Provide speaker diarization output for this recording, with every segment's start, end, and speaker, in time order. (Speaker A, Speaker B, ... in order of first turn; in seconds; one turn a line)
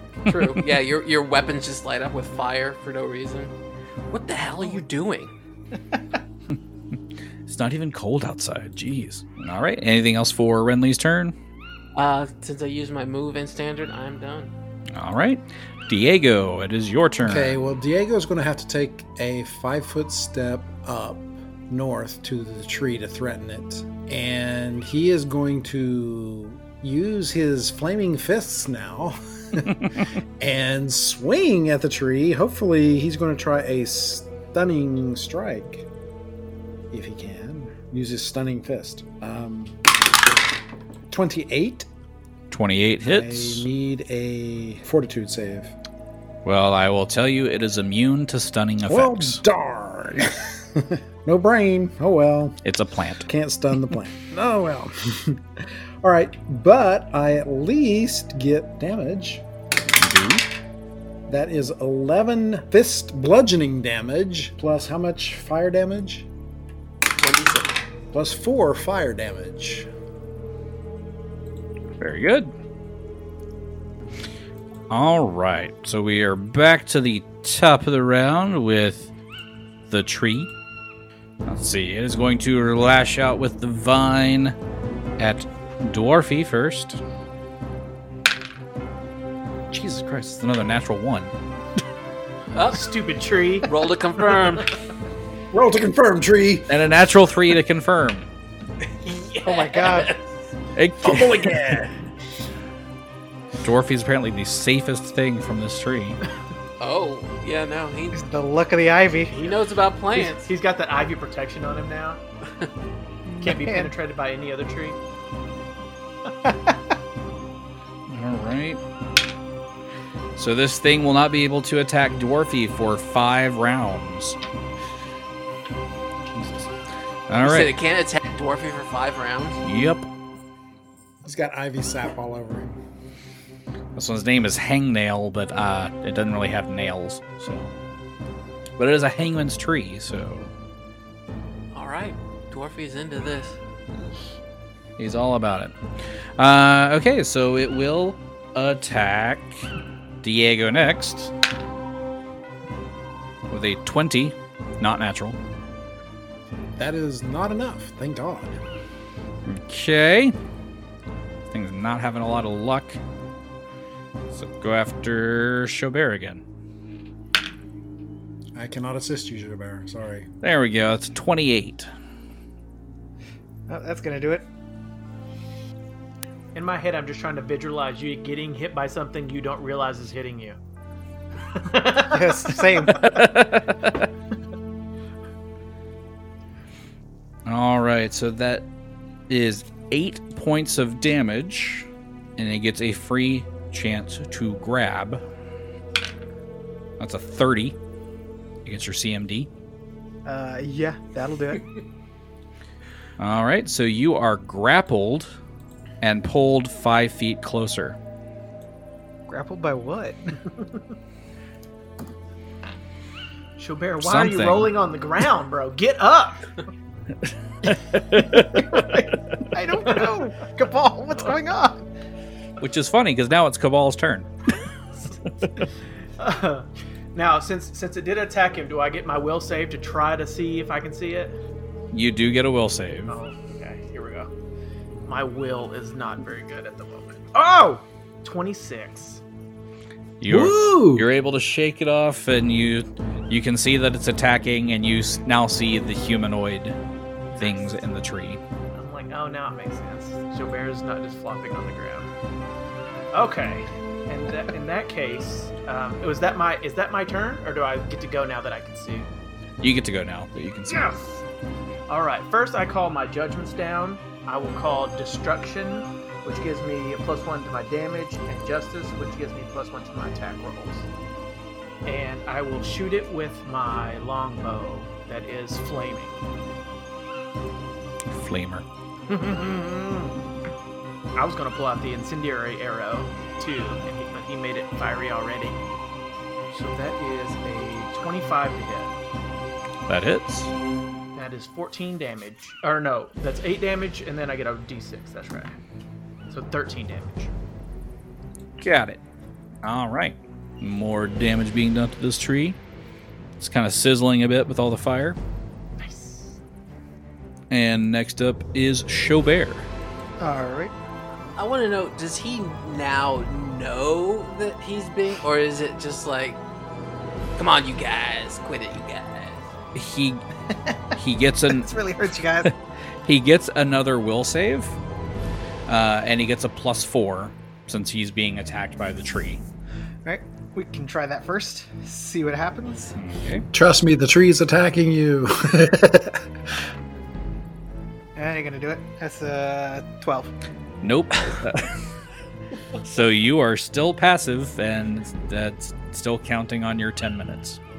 Speaker A: 0.2-3.5
Speaker A: 4.1-5.3
Speaker B: 7.5-11.3
Speaker A: 11.9-14.5
Speaker B: 14.9-17.6
Speaker C: 17.2-29.8
Speaker C: 30.4-35.9
Speaker C: 36.9-39.8
Speaker C: 41.1-41.9
Speaker B: 42.5-43.7
Speaker C: 43.0-45.8
Speaker B: 46.5-49.4
Speaker C: 48.9-52.6
Speaker B: 52.6-53.3
Speaker C: 53.2-59.4
Speaker B: 60.0-60.5
Speaker C: 61.3-66.3
Speaker A: 67.2-67.8
Speaker C: 68.1-69.9
Speaker B: 72.0-72.5
Speaker B: 74.9-79.1
Speaker B: 79.9-80.5
Speaker B: 81.5-84.6
Speaker B: 85.2-87.0
Speaker B: 89.7-91.3
Speaker A: 92.5-92.9
Speaker D: 92.7-93.7
Speaker A: 93.6-94.8
Speaker C: 95.5-96.9
Speaker B: 96.7-98.3
Speaker A: 99.0-100.2
Speaker E: 99.4-100.2
Speaker B: 100.8-101.8
Speaker C: 101.0-102.0
Speaker B: 103.6-106.2
Speaker A: 106.8-108.2
Speaker E: 108.1-109.5
Speaker A: 109.3-110.5
Speaker D: 110.2-112.2
Speaker E: 113.3-113.9
Speaker D: 113.4-115.0
Speaker E: 116.5-116.8
Speaker B: 118.1-118.8
Speaker B: 120.4-124.4
Speaker B: 126.3-126.7
Speaker B: 127.3-127.7
Speaker A: 127.4-129.6
Speaker B: 129.6-130.1
Speaker C: 131.2-132.8
Speaker B: 134.0-137.7
Speaker B: 138.8-140.5
Speaker A: 141.7-143.6
Speaker B: 145.0-145.7
Speaker B: 146.4-149.7
Speaker B: 150.2-151.3
Speaker B: 153.5-155.4
Speaker C: 156.8-158.6
Speaker B: 159.5-160.3
Speaker B: 161.5-163.0
Speaker B: 164.3-166.4
Speaker C: 168.6-170.3
Speaker B: 170.4-171.9
Speaker E: 173.7-174.5
Speaker D: 176.5-180.6
Speaker D: 181.5-183.1
Speaker E: 182.1-183.4
Speaker B: 183.0-183.9
Speaker B: 187.5-188.7
Speaker B: 189.3-195.2
Speaker B: 197.0-197.8
Speaker B: 198.7-199.5
Speaker E: 200.2-201.8
Speaker B: 203.2-205.3
Speaker B: 206.0-208.0
Speaker E: 209.3-210.4
Speaker D: 213.6-216.5
Speaker B: 214.0-214.7
Speaker B: 217.6-219.0
Speaker E: 219.5-221.8
Speaker B: 222.6-224.3
Speaker D: 226.2-231.3
Speaker B: 231.9-233.2
Speaker D: 233.1-234.3
Speaker D: 235.1-239.2
Speaker B: 240.2-246.8
Speaker C: 240.3-241.1
Speaker D: 247.3-247.8
Speaker B: 247.4-248.4
Speaker D: 248.7-252.1
Speaker D: 253.1-259.1
Speaker B: 259.6-261.0
Speaker D: 260.7-261.2
Speaker D: 261.9-270.9
Speaker D: 271.9-276.2
Speaker B: 278.1-278.6
Speaker D: 279.1-280.2
Speaker D: 281.2-285.6
Speaker D: 286.5-288.9
Speaker B: 289.9-290.5
Speaker D: 291.1-295.6
Speaker D: 296.3-297.3
Speaker B: 298.6-299.0
Speaker B: 299.6-302.6
Speaker B: 303.4-305.2
Speaker D: 305.8-306.4
Speaker B: 307.5-309.7
Speaker E: 310.2-310.7
Speaker A: 311.4-316.4
Speaker A: 317.4-319.5
Speaker B: 319.8-320.2
Speaker B: 320.9-321.7
Speaker E: 321.5-322.5
Speaker B: 323.1-324.8
Speaker B: 325.7-329.4
Speaker E: 330.1-332.9
Speaker B: 332.9-333.5
Speaker C: 333.5-336.2
Speaker E: 338.2-340.3
Speaker B: 340.8-341.7
Speaker B: 342.8-347.6